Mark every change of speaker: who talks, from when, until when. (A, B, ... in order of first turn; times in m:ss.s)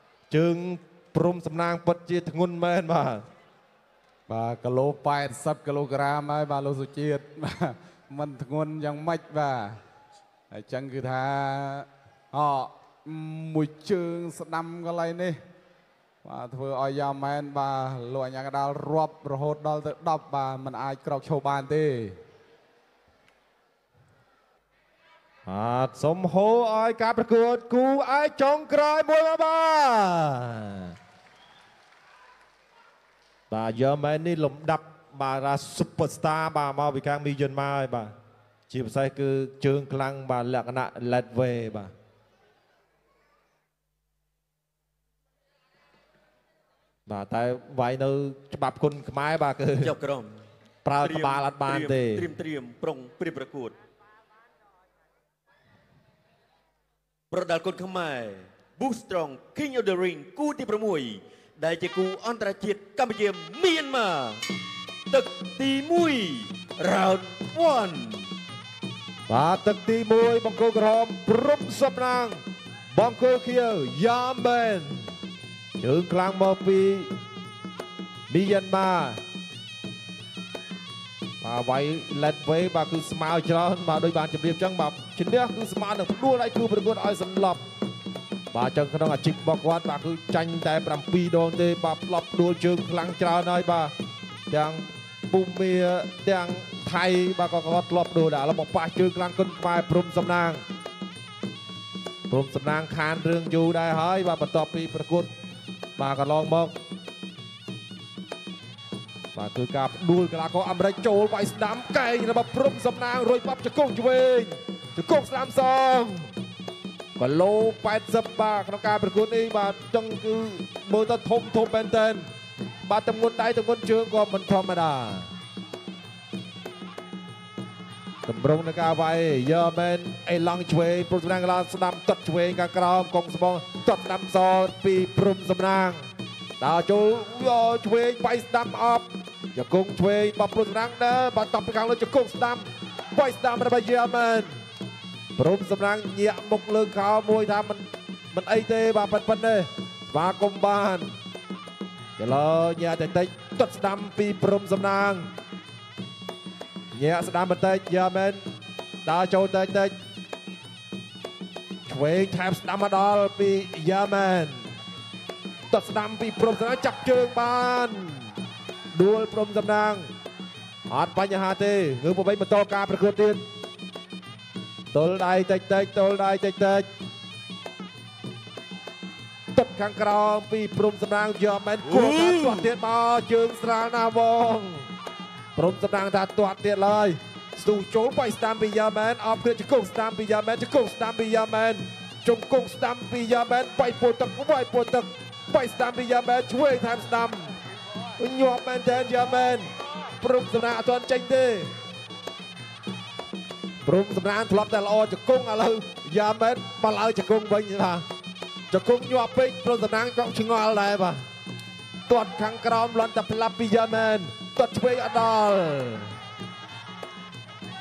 0:00.3-0:03.2 A
0:04.3-0:09.8 B
0:10.5-0:15.4 B
0:16.2-0:22.2 B
0:25.5-0:30.9 A
0:33.5-0:38.1 A
0:38.7-0:41.9 A
0:47.1-0:49.9 A
0:49.8-0:50.4 C
0:50.8-0:52.3 A
0:51.0-0:53.8 C
0:57.3-1:04.4 C
1:05.1-1:08.3 C
1:09.3-1:12.4 A
1:12.9-1:15.1 A
1:15.8-1:17.1 A
1:18.3-1:19.2 A
1:21.4-1:27.6 A
1:28.5-1:33.9 A
1:34.5-1:40.6 A
1:42.3-1:45.3 A
1:46.0-1:46.7 A
1:49.3-1:56.3 A
1:57.2-2:02.3 A
2:02.8-2:05.3 A
2:08.3-2:16.0 A
2:16.6-2:24.5 A
2:25.4-2:31.1 A
2:32.2-2:35.3 A
2:36.9-2:38.4 A
2:39.0-2:39.9 A
2:41.9-2:44.7 A
2:45.7-2:48.3 A
2:48.9-2:50.1 A
2:50.9-2:53.4 A
2:54.9-2:56.9 A
2:59.5-3:04.9 A
3:01.9-3:02.7 C
3:05.6-3:17.5 A
3:18.2-3:19.7 A
3:20.2-3:21.7 A
3:23.8-3:28.0 A
3:28.7-3:31.2 A
3:32.1-3:36.1 A